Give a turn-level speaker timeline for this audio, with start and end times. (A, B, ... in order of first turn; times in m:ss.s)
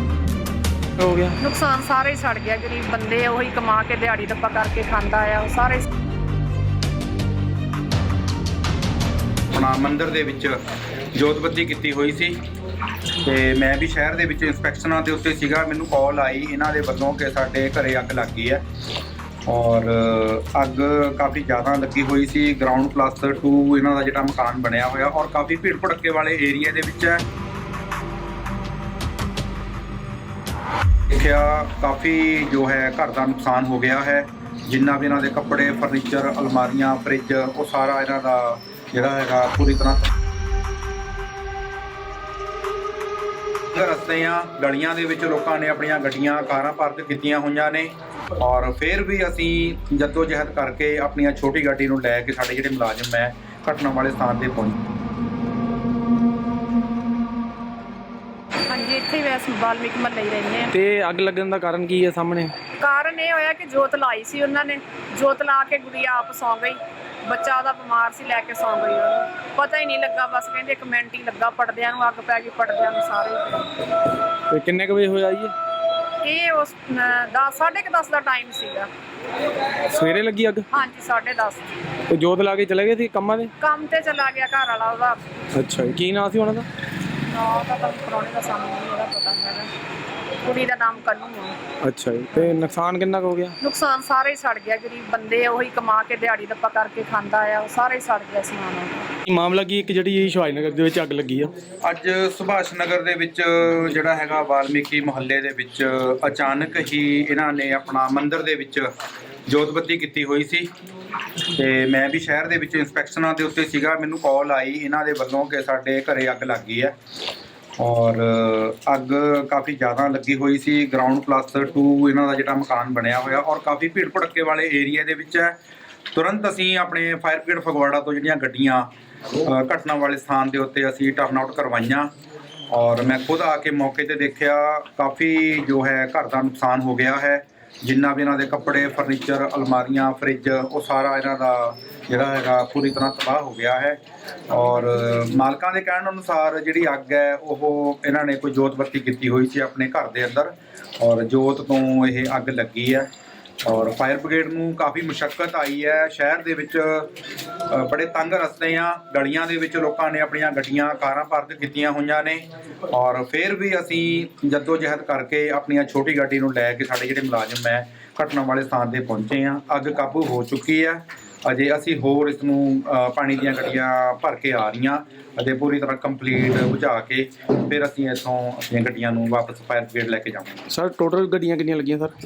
0:01.0-0:01.4 A
0:01.4-0:05.9 B
0:09.5-0:10.6 C
0:11.1-0:12.4 C
0:13.2-0:18.6 C
0:19.5-0:27.2 C
0:31.1-0:40.1 C
0:43.7-0:54.8 C
0:58.7-1:00.7 B
1:00.7-1:02.5 A
1:02.8-1:13.7 B
1:14.5-1:15.6 A
1:16.2-1:18.9 B
1:19.9-1:20.7 A
1:20.7-1:21.7 B
1:22.1-1:23.5 A
1:23.6-1:25.2 B
1:25.5-1:26.7 A
1:27.3-1:29.7 B
1:30.4-1:31.6 B
1:31.8-1:33.6 A
1:33.6-1:39.1 B
1:39.3-1:41.5 A
1:41.8-1:48.9 C
1:49.5-1:50.7 C
1:51.5-1:56.9 C
1:57.8-2:05.6 C
2:06.1-2:08.9 C
2:09.4-2:12.1 C
2:12.7-2:24.0 C
2:24.5-2:33.1 C
2:33.6-2:37.1 C
2:37.7-3:00.6 C
3:00.7-3:02.1 A